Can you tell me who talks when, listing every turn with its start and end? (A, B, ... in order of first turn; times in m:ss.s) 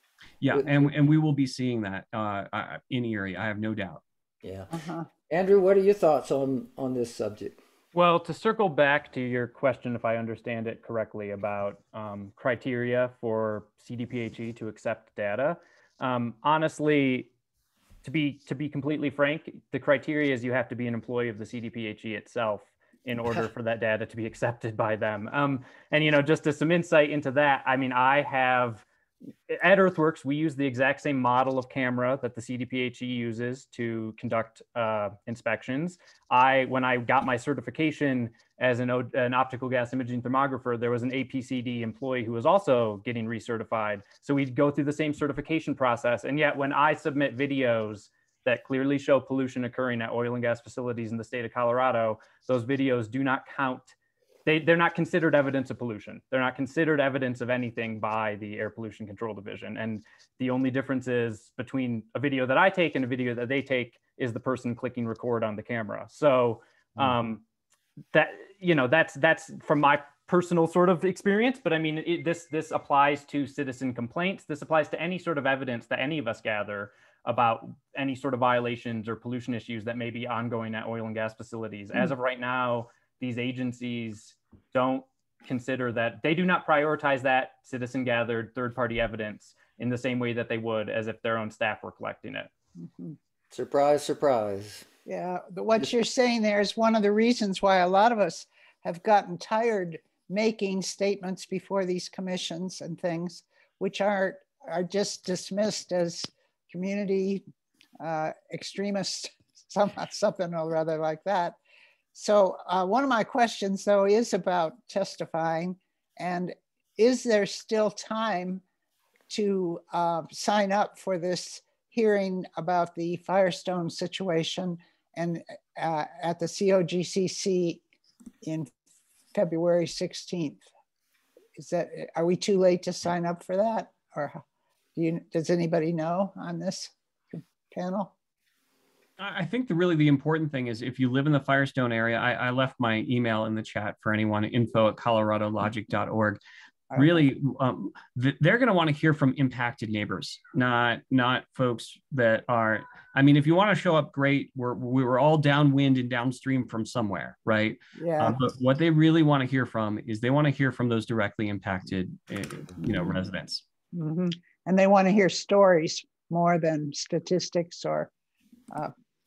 0:00.4-0:04.0 A
0:00.5-0:00.9 B
0:04.4-0:04.7 B
0:04.7-0:05.1 C
0:05.3-0:07.6 B
0:07.9-0:17.3 D
0:18.0-0:28.8 D
0:29.5-0:53.9 D
0:54.5-1:07.4 D
1:08.1-1:32.5 D
1:32.8-1:33.2 C
1:33.5-1:34.9 B
1:35.1-1:47.4 C
1:48.0-1:51.6 C
1:52.1-1:58.6 C
1:59.3-2:07.8 C
2:08.4-2:08.7 C
2:09.3-2:10.7 C
2:11.6-2:14.4 C
2:15.0-2:18.1 C
2:19.2-2:26.4 A
2:26.9-2:27.2 C
2:27.0-2:43.6 A
2:38.0-2:38.4 C
2:43.9-2:48.1 C